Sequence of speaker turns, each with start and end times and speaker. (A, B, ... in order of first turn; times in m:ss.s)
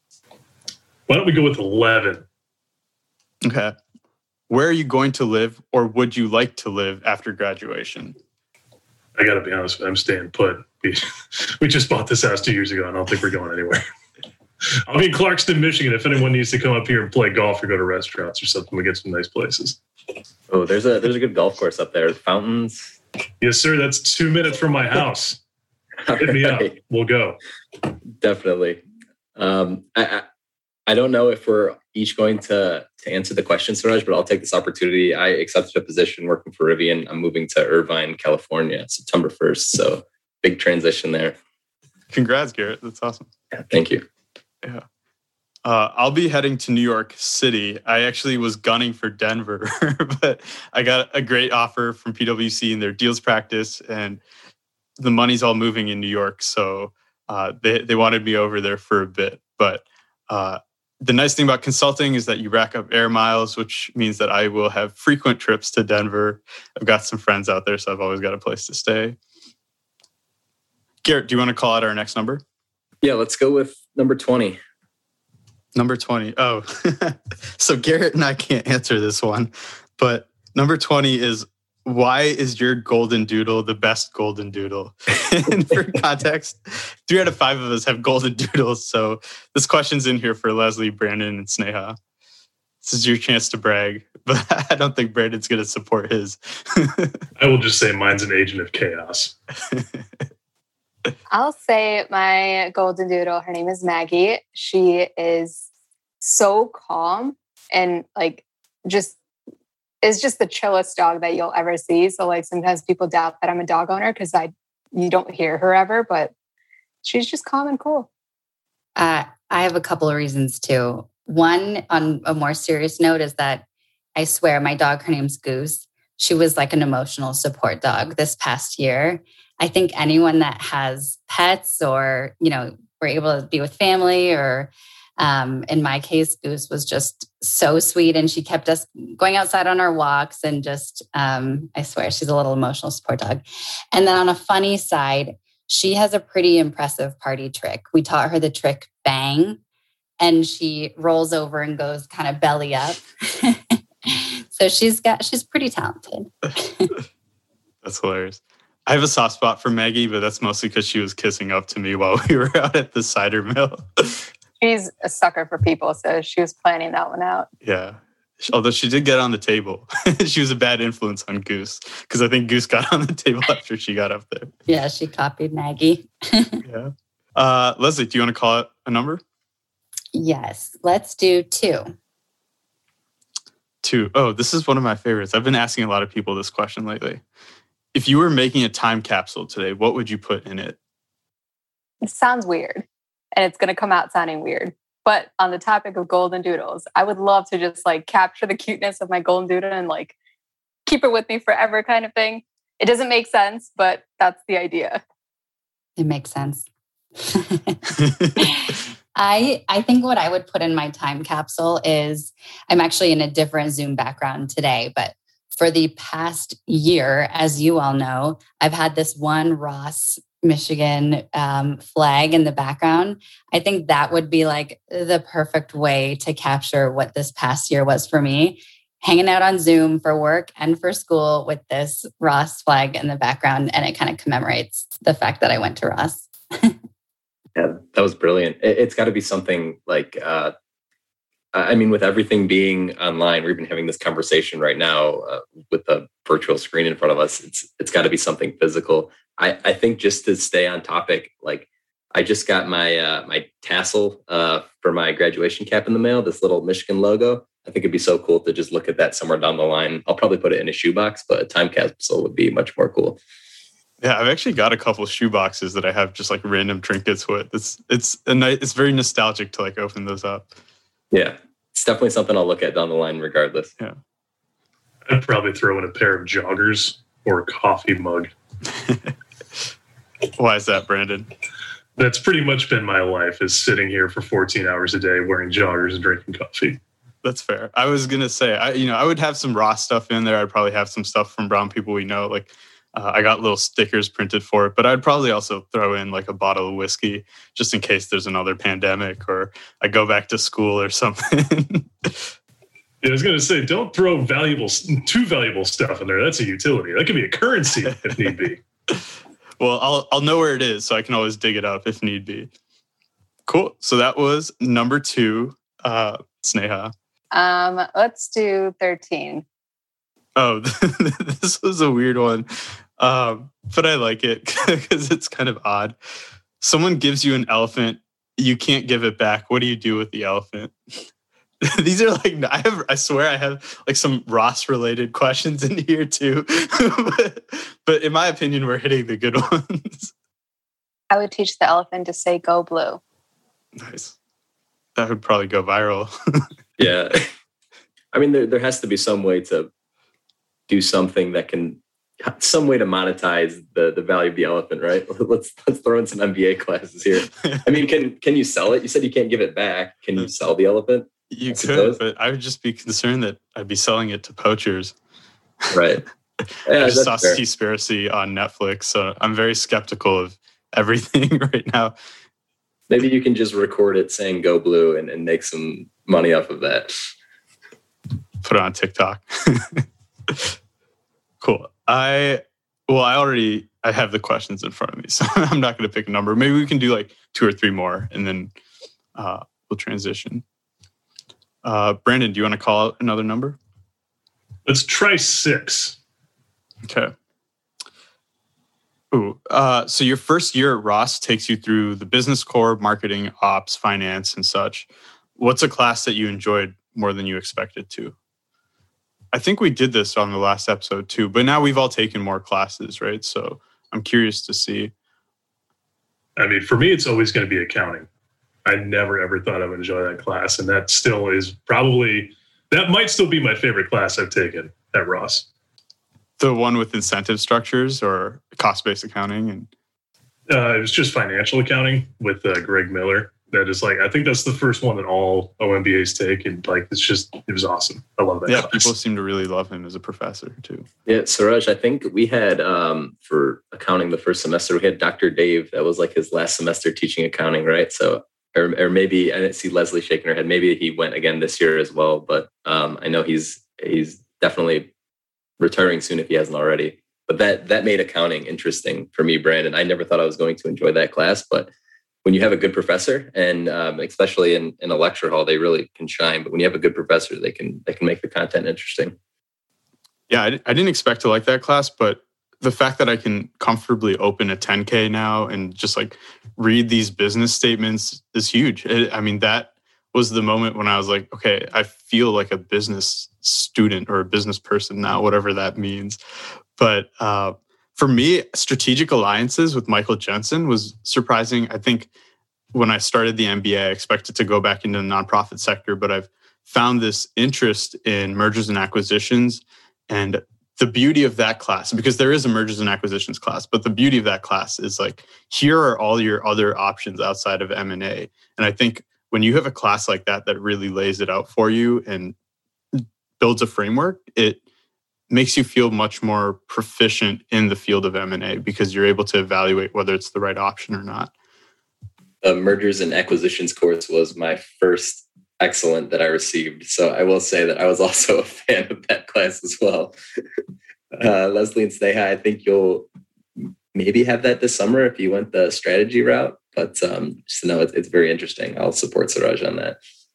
0:01.1-0:02.2 A
0:03.4-0:03.8 B
0:04.5-0:08.2 B
0:09.2-0:13.8 A
0:14.9-0:19.8 A
0:20.5-0:22.9 C
0:23.4-0:25.4 A
0:26.0-0:26.8 C
0:26.2-0:27.4 A
0:28.2-0:28.8 C
0:29.4-0:30.3 C
0:30.9-0:41.4 C
0:42.1-0:43.3 B
0:43.6-0:44.0 C
0:45.6-0:54.2 B
0:55.0-1:09.2 B
1:11.0-1:12.4 B
1:13.0-1:14.6 C
1:15.8-1:32.0 B
1:32.8-1:37.2 B
1:37.4-1:39.3 A
1:39.7-1:40.0 B
1:41.3-1:45.7 D
1:46.2-1:49.2 D
1:50.0-1:56.3 D
1:57.0-1:58.1 D
1:59.0-2:03.6 E
2:04.2-2:23.4 E
2:23.9-2:29.6 E
2:30.2-2:36.9 E
2:37.8-2:44.3 B
2:44.6-2:47.5 D
2:47.6-2:54.5 B
2:54.7-2:56.6 E
2:56.6-2:59.2 B
3:00.1-3:01.9 E
3:03.8-3:07.2 B
3:07.9-3:10.8 B
3:12.0-3:12.8 D
3:13.4-3:20.2 D
3:20.9-3:25.0 D
3:26.0-3:26.6 E
3:27.2-3:56.8 E
3:57.6-4:00.5 C
4:01.5-4:23.2 C
4:24.0-4:30.5 B
4:31.1-4:33.7 C
4:35.1-4:38.3 A
4:38.8-4:39.1 B
4:40.4-4:41.3 B
4:42.0-4:46.8 A
4:47.2-5:02.3 B
5:03.0-5:08.6 A
5:09.6-5:12.5 B
5:13.5-5:16.9 B
5:17.3-5:19.4 D
5:20.4-5:26.0 B
5:26.6-5:30.8 B
5:31.6-5:40.1 B
5:41.1-5:43.0 D
5:43.8-5:44.2 B
5:45.0-5:46.5 B
5:46.8-5:47.3 C
5:48.1-5:49.7 C
5:50.7-6:02.0 C
5:57.4-5:57.7 B
6:01.3-6:05.0 B
6:05.7-6:06.0 C
6:06.7-6:07.4 C
6:06.7-6:12.0 B
6:12.9-6:17.0 C
6:18.4-6:20.5 B
6:21.4-6:28.5 B
6:29.2-6:30.4 B
6:31.6-6:33.6 B
6:34.7-6:36.0 A
6:36.8-6:37.1 B
6:39.1-6:48.2 B
6:49.3-6:54.9 B
6:56.4-6:58.1 A
6:58.6-7:05.5 A
7:06.4-7:09.7 B
7:10.5-7:18.9 A
7:18.5-7:20.9 B
7:21.1-7:34.9 C
7:35.6-7:41.7 C
7:42.2-7:49.2 C
7:50.3-8:06.2 B
8:06.8-8:12.1 B
8:12.7-8:32.4 B
8:32.9-8:34.6 B
8:35.3-8:41.3 B
8:42.4-8:50.2 C
8:51.2-8:53.1 C
8:53.9-9:00.0 C